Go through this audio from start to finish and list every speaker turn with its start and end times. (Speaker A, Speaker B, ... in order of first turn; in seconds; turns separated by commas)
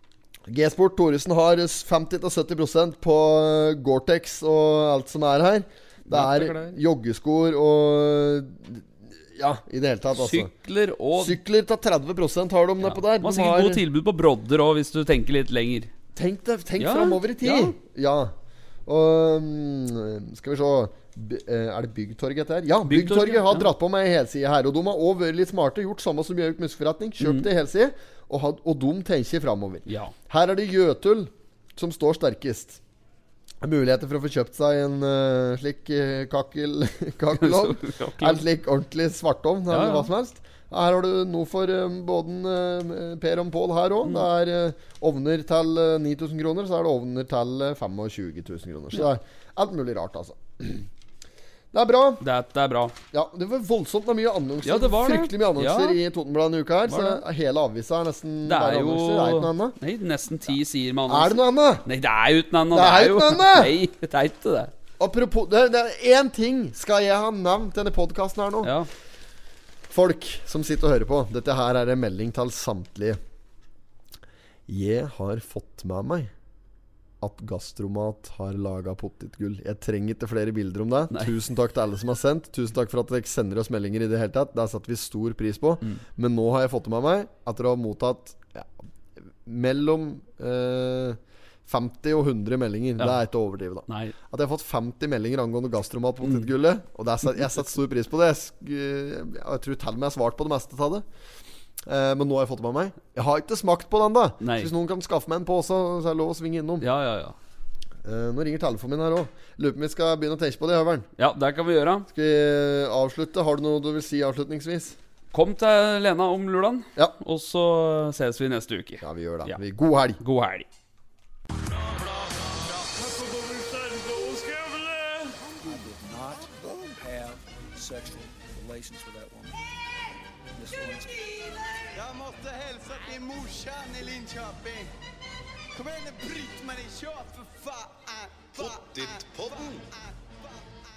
Speaker A: 0.5-10.5, Speaker B: 6.1-6.8, Speaker B: 10.1-11.4, Speaker A: 11.2-13.8, Speaker B: 12.8-15.9, Speaker A: 16.1-18.3, Speaker B: 16.8-17.8, Speaker A: 18.9-32.8, Speaker B: 22.9-23.7, Speaker B: 27.2-27.5, Speaker B: 29.9-30.1, Speaker A: 33.6-50.9, Speaker B: 37.3-38.4, Speaker B: 39.7-40.1, Speaker A: 51.7-52.2, Speaker B: 52.2-53.0, Speaker A: 53.1-59.8, Speaker B: 54.6-56.0, Speaker B: 56.9-57.2, Speaker B: 58.5-64.7, Speaker A: 61.1-61.8, Speaker A: 62.7-63.8, Speaker A: 65.0-68.7, Speaker B: 68.6-68.9, Speaker A: 69.9-73.2, Speaker A: 74.7-76.3, Speaker A: 77.2-88.7, Speaker A: 89.4-101.0, Speaker B: 93.9-94.2, Speaker B: 96.2-96.5, Speaker A: 101.8-106.9, Speaker B: 104.4-104.7, Speaker B: 106.8-107.3, Speaker A: 108.0-111.1, Speaker B: 111.2-112.1, Speaker A: 112.1-115.0, Speaker B: 115.3-119.6, Speaker A: 119.0-120.2, Speaker B: 120.2-120.7, Speaker C: 121.5-127.0, Speaker D: 125.7-126.4, Speaker D: 127.0-129.6, Speaker D: 130.6-131.1, Speaker C: 130.9-134.9, Speaker C: 135.7-140.8